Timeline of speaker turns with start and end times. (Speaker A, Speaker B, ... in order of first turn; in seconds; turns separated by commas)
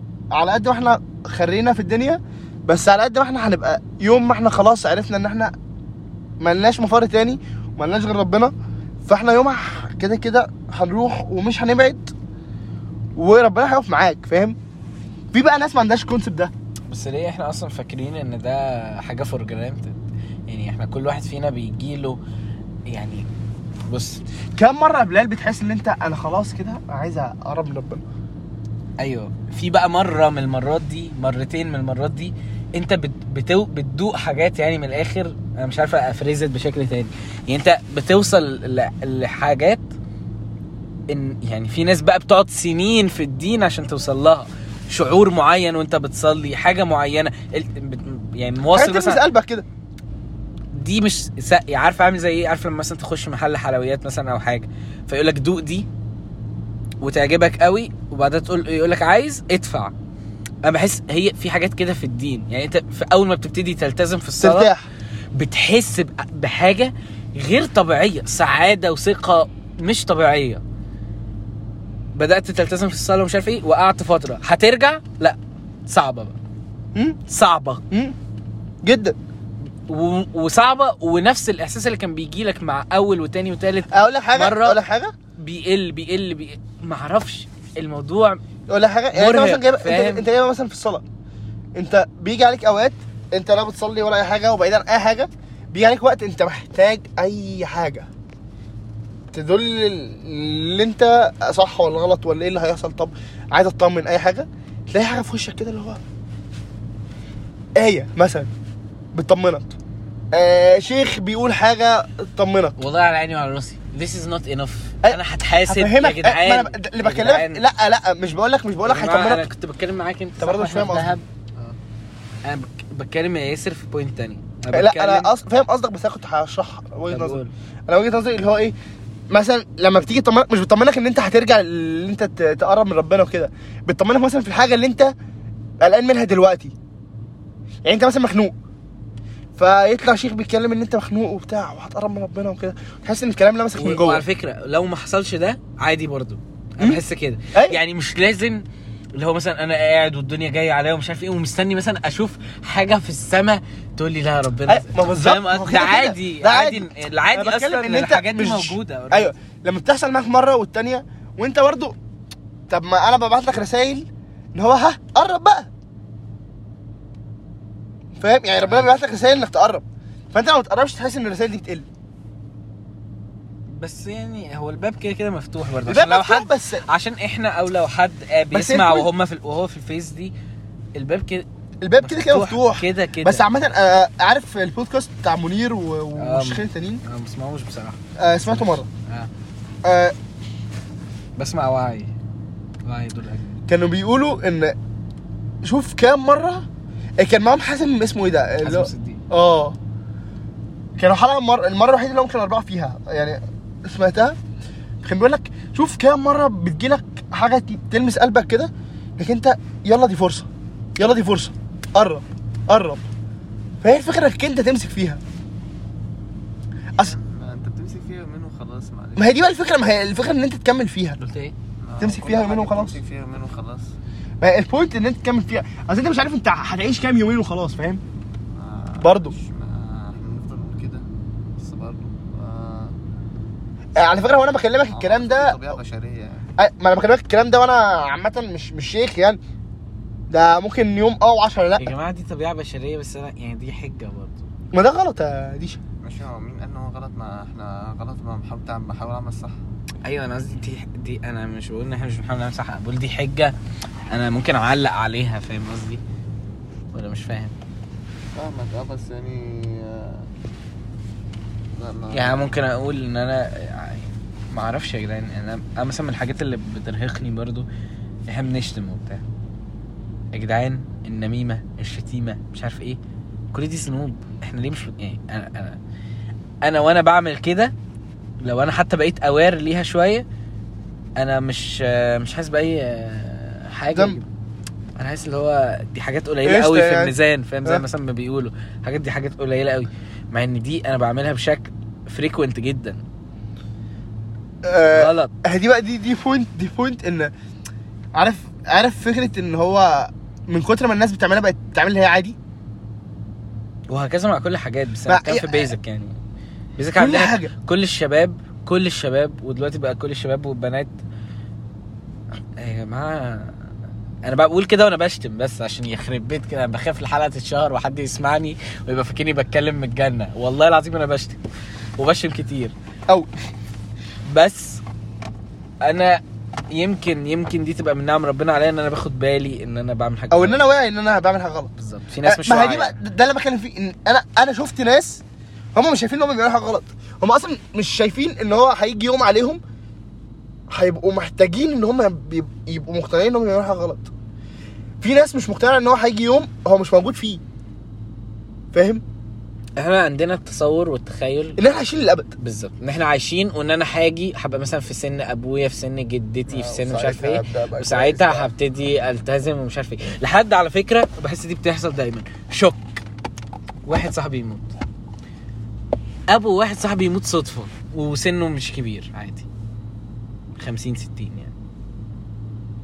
Speaker A: 0.3-5.5, Speaker A: 6.4-8.5, Speaker A: 9.1-12.1, Speaker A: 13.2-14.6, Speaker A: 15.3-16.5, Speaker B: 16.9-20.0, Speaker B: 20.5-22.2, Speaker B: 22.9-23.3, Speaker B: 23.9-24.2, Speaker A: 24.6-28.0, Speaker B: 29.0-39.9, Speaker B: 41.1-49.2, Speaker A: 48.7-49.6, Speaker B: 50.7-55.9, Speaker B: 57.0-59.9, Speaker B: 60.6-64.7, Speaker A: 64.4-64.8, Speaker B: 65.3-70.6, Speaker B: 72.1-76.3, Speaker B: 77.3-77.8, Speaker A: 77.9-78.2, Speaker A: 78.8-79.2, Speaker B: 79.9-84.8, Speaker A: 83.9-85.1, Speaker B: 85.4-88.4, Speaker A: 88.7-91.0, Speaker B: 89.1-90.2, Speaker A: 91.8-98.1, Speaker A: 99.3-106.0, Speaker A: 107.8-108.5, Speaker A: 109.1-109.7, Speaker A: 110.3-112.7, Speaker B: 112.8-117.6, Speaker A: 115.0-119.4, Speaker B: 118.8-121.2, Speaker A: 120.4-121.2, Speaker B: 122.4-125.3, Speaker A: 124.7-128.7, Speaker B: 127.1-127.5, Speaker A: 129.3-135.1, Speaker A: 135.8-136.7, Speaker A: 137.8-138.5, Speaker A: 139.6-144.2, Speaker B: 143.8-148.6, Speaker B: 149.1-159.3, Speaker A: 154.7-161.9, Speaker A: 162.7-165.7, Speaker A: 168.2-171.8, Speaker B: 173.7-180.3, Speaker A: 175.9-176.8, Speaker A: 178.5-179.1, Speaker B: 180.9-181.4, Speaker A: 181.8-187.0, Speaker B: 182.0-183.5, Speaker B: 186.2-189.3, Speaker A: 188.2-188.9, Speaker A: 189.8-190.1, Speaker B: 191.4-192.1, Speaker B: 192.8-193.6, Speaker A: 193.7-194.8, Speaker A: 195.6-196.6, Speaker A: 197.2-199.8, Speaker B: 198.6-199.2, Speaker A: 201.0-204.4, Speaker A: 205.0-213.0, Speaker A: 213.8-215.2, Speaker C: 216.9-219.4, Speaker A: 219.2-221.2, Speaker B: 221.2-221.5, Speaker C: 221.8-223.9, Speaker A: 222.0-223.0, Speaker A: 224.4-228.0, Speaker C: 228.5-231.1, Speaker A: 229.0-229.3, Speaker C: 231.6-232.9, Speaker A: 233.9-235.6, Speaker C: 234.9-236.5, Speaker A: 236.6-239.4, Speaker A: 240.3-241.9, Speaker B: 241.8-244.5, Speaker A: 244.7-245.8, Speaker C: 246.0-249.6, Speaker B: 250.0-253.5, Speaker B: 254.1-256.0, Speaker B: 256.9-257.6, Speaker C: 258.3-260.3, Speaker C: 261.8-262.5, Speaker B: 262.1-267.7, Speaker B: 268.3-269.2, Speaker B: 270.3-273.0, Speaker B: 273.5-275.8, Speaker B: 276.6-277.7, Speaker B: 278.4-280.2, Speaker B: 281.2-284.3, Speaker A: 283.9-284.2, Speaker B: 284.9-293.0, Speaker A: 286.4-287.8, Speaker A: 294.6-297.3, Speaker B: 294.9-295.3, Speaker A: 298.1-302.4, Speaker B: 303.9-306.2, Speaker A: 305.1-305.7, Speaker B: 306.8-310.9, Speaker A: 306.9-307.5, Speaker B: 312.6-313.6, Speaker B: 314.2-321.4, Speaker B: 322.0-322.7, Speaker B: 324.2-324.8, Speaker B: 325.8-330.6, Speaker A: 330.3-331.7, Speaker B: 331.8-332.9, Speaker A: 332.2-335.2, Speaker A: 335.7-339.6, Speaker A: 340.7-344.1, Speaker A: 345.0-347.4, Speaker A: 348.7-349.0, Speaker B: 349.8-351.6, Speaker A: 351.6-352.3, Speaker B: 352.4-363.0, Speaker C: 356.5-358.5, Speaker B: 363.9-364.7, Speaker B: 366.3-369.4, Speaker B: 370.6-371.5